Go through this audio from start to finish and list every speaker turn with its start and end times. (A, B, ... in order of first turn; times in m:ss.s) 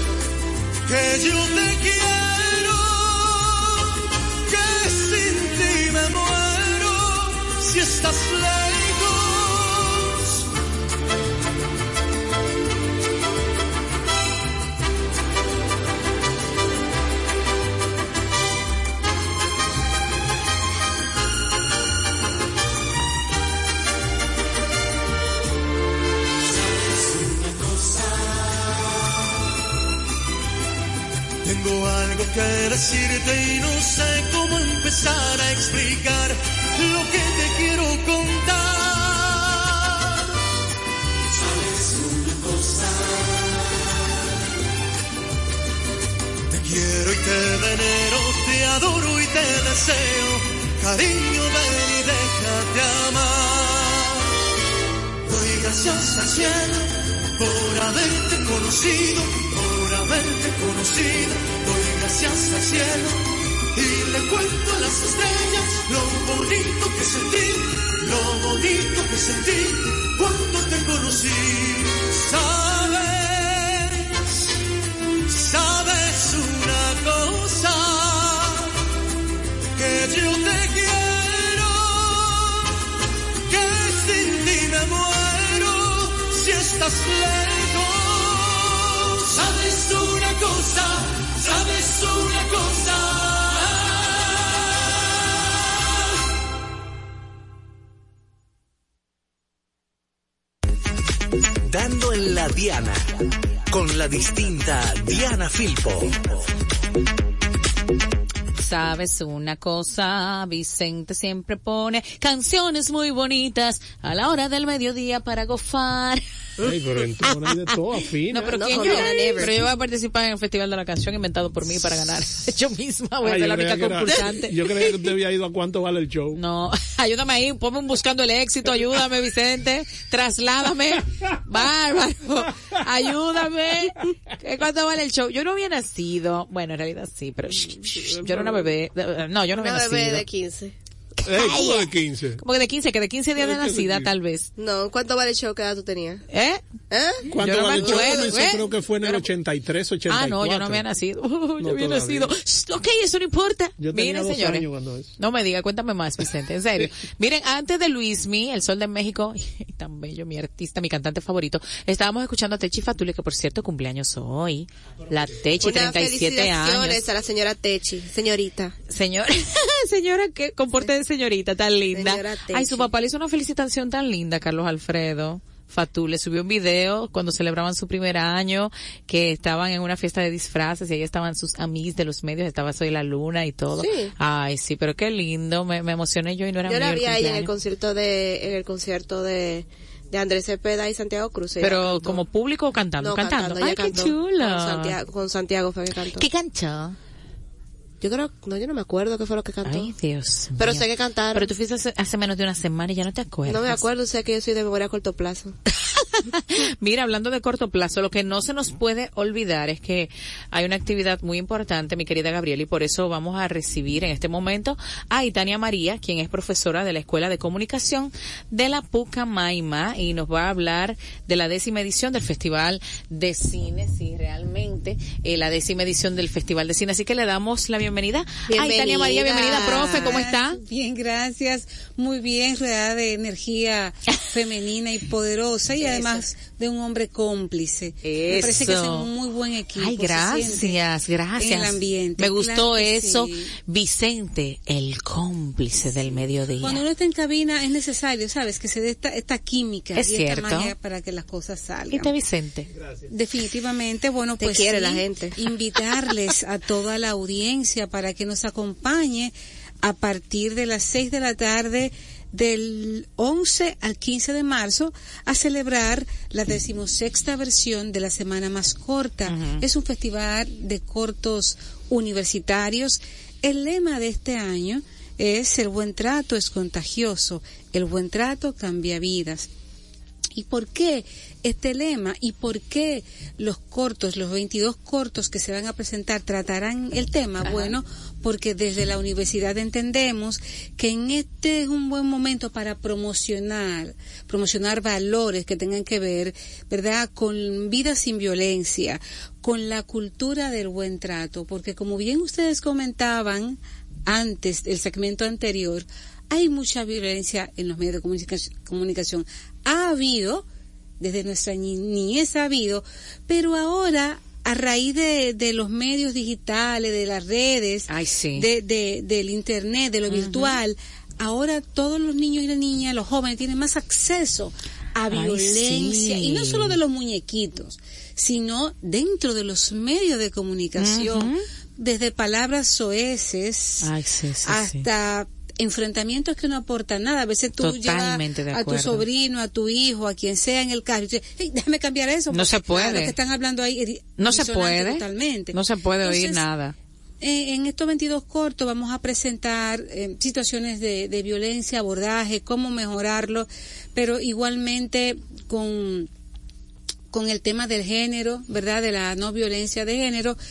0:00.8-0:03.8 A
0:04.5-0:10.4 A
0:31.4-0:39.9 A
0:46.5-0:54.3 A
0:55.2-1:14.2 A
1:15.3-1:18.7 A
1:19.7-1:22.7 A
1:23.5-1:34.2 A
1:41.7-1:43.2 B
1:43.7-1:46.4 B
1:48.6-1:56.2 C
1:56.6-1:59.0 D
1:57.2-1:57.7 C
1:58.3-2:04.9 C
1:58.5-1:59.5 E
2:03.2-2:06.4 D
2:06.3-2:20.2 C
2:18.2-2:18.5 D
2:19.5-2:20.7 E
2:21.2-2:24.5 C
2:21.2-2:22.4 D
2:23.4-2:24.1 D
2:24.6-2:26.2 E
2:26.3-2:26.6 C
2:26.9-2:28.3 E
2:27.3-2:30.8 D
2:27.4-2:29.2 C
2:30.1-2:34.7 C
2:31.6-2:32.3 D
2:33.8-2:35.1 D
2:35.2-2:47.0 C
2:45.6-2:48.7 E
2:48.9-3:07.5 C
2:51.9-2:52.9 E
3:03.8-3:04.1 E
3:06.6-3:12.2 E
3:11.6-3:15.0 C
3:13.0-3:16.2 E
3:16.2-3:17.0 C
3:18.0-3:19.9 E
3:19.6-3:23.8 C
3:20.6-3:21.5 E
3:23.5-3:25.5 E
3:25.9-3:50.6 C
3:48.5-3:49.3 E
3:49.2-4:00.8 F
3:58.0-3:59.1 C
3:59.8-4:06.8 C
4:01.4-4:03.5 F
4:06.6-4:12.1 F
4:09.9-4:10.7 C
4:11.9-4:12.7 C
4:13.1-4:39.5 F
4:14.4-4:15.4 E
4:29.2-4:29.6 C
4:40.3-5:10.4 F
4:47.4-4:47.8 C
5:11.0-5:33.9 F
5:17.9-5:18.5 C
5:20.1-5:20.6 C
5:25.1-5:26.8 C
5:30.8-5:31.4 C
5:33.8-5:34.8 C
5:34.4-5:46.4 F
5:37.6-5:39.0 C
5:42.3-5:43.2 C
5:44.2-5:46.7 C
5:47.2-5:56.1 F
5:57.1-6:00.4 F